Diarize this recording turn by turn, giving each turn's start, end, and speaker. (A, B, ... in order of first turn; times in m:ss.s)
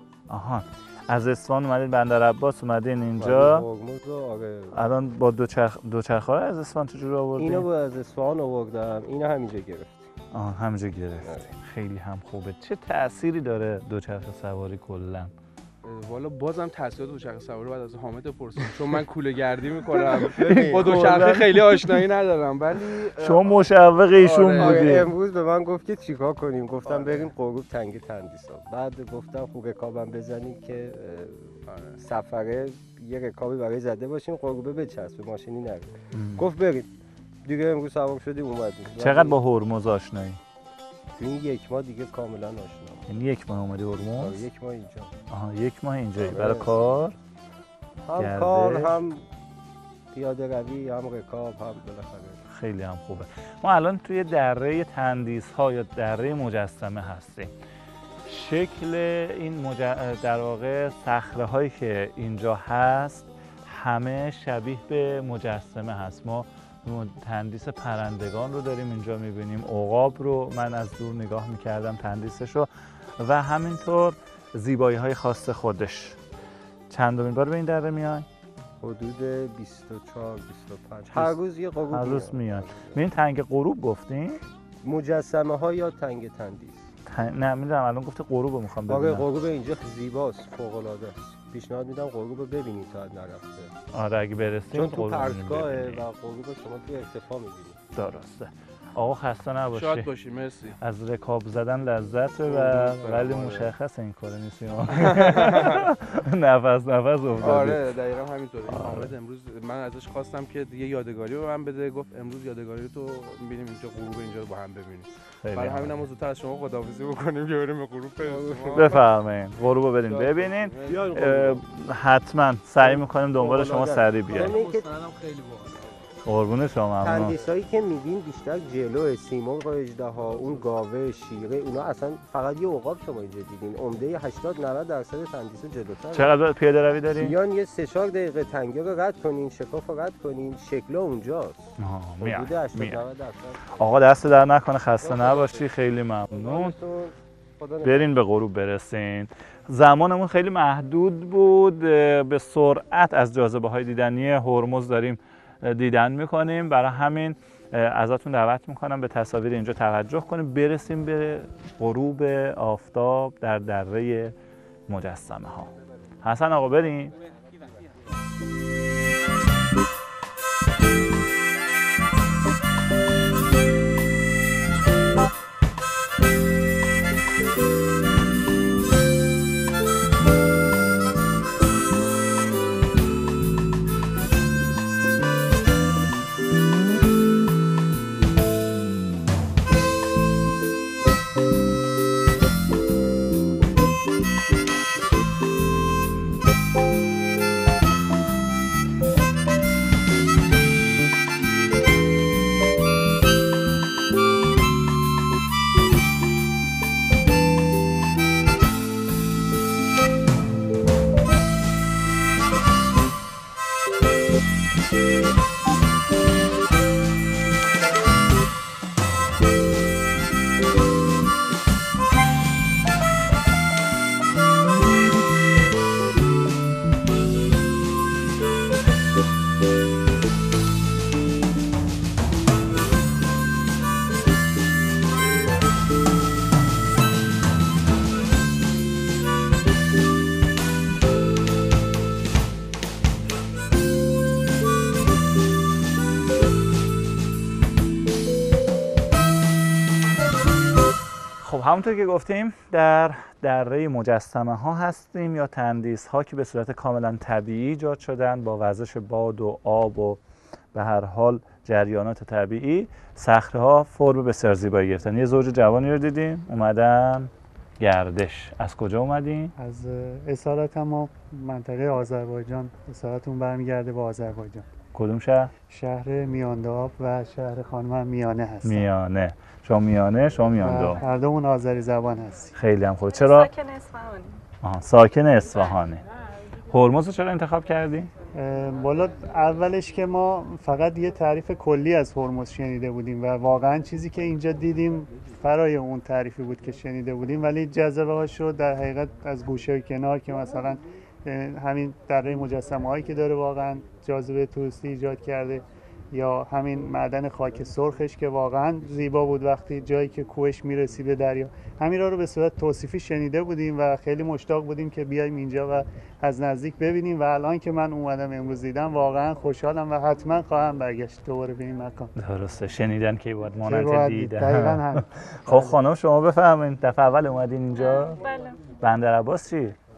0:00.3-0:03.6 A
0:03.2-0:04.8 B
0:04.7-0:07.6 A
0:07.4-0:10.1 B
0:10.3-0:15.3 A
0:11.2-0:11.5 B
0:15.8-0:25.0 C
0:19.9-0:21.4 B
0:20.7-0:22.0 A
0:23.2-0:25.1 A
0:24.2-0:36.9 B
0:26.8-0:27.3 C
0:31.7-0:32.0 C
0:36.1-0:36.4 A
0:37.4-0:39.4 B
0:39.0-0:40.4 A
0:41.2-0:43.1 B
0:43.1-0:44.4 A
0:44.2-0:45.1 B
0:45.3-0:47.2 A
0:46.2-0:46.9 B
0:48.0-0:49.2 B
0:48.2-0:49.0 A
0:50.1-0:52.4 B
0:52.5-0:57.5 A
0:58.2-1:16.2 A
1:16.9-1:18.3 A
1:18.8-1:23.0 B
1:21.9-1:24.4 A
1:24.8-1:26.9 B
1:27.1-1:29.2 A
1:28.9-1:33.7 B
1:33.9-1:36.0 A
1:34.7-1:37.8 B
1:38.0-1:40.1 A
1:39.7-1:40.8 C
1:40.8-1:47.9 A
1:42.5-1:43.7 C
1:44.9-1:45.8 C
1:47.4-1:59.1 C
1:48.7-1:49.1 A
1:55.4-1:56.0 A
1:58.2-1:59.0 B
1:58.8-2:04.6 A
2:00.0-2:01.2 C
2:00.8-2:01.6 B
2:02.8-2:04.9 B
2:04.2-2:06.0 C
2:06.2-2:07.3 A
2:07.0-2:16.3 B
2:16.1-2:17.3 A
2:17.2-2:24.0 B
2:21.8-2:23.0 A
2:23.8-2:26.7 A
2:25.0-2:25.7 B
2:26.3-2:28.2 B
2:27.8-2:44.3 A
2:44.9-2:47.1 A
4:11.4-4:20.2 A
4:20.7-4:29.5 A
4:29.6-4:34.7 D
4:35.0-4:35.5 A
4:35.7-4:38.8 D
4:38.6-4:41.0 A
4:40.6-4:42.5 D
4:42.6-4:43.5 A
4:43.1-4:44.4 E
4:44.6-4:46.0 A
4:46.7-4:48.1 A
4:48.3-5:22.1 D
5:22.2-5:28.2 A
5:23.6-5:25.8 D
5:27.7-5:28.6 E
5:28.8-5:29.8 A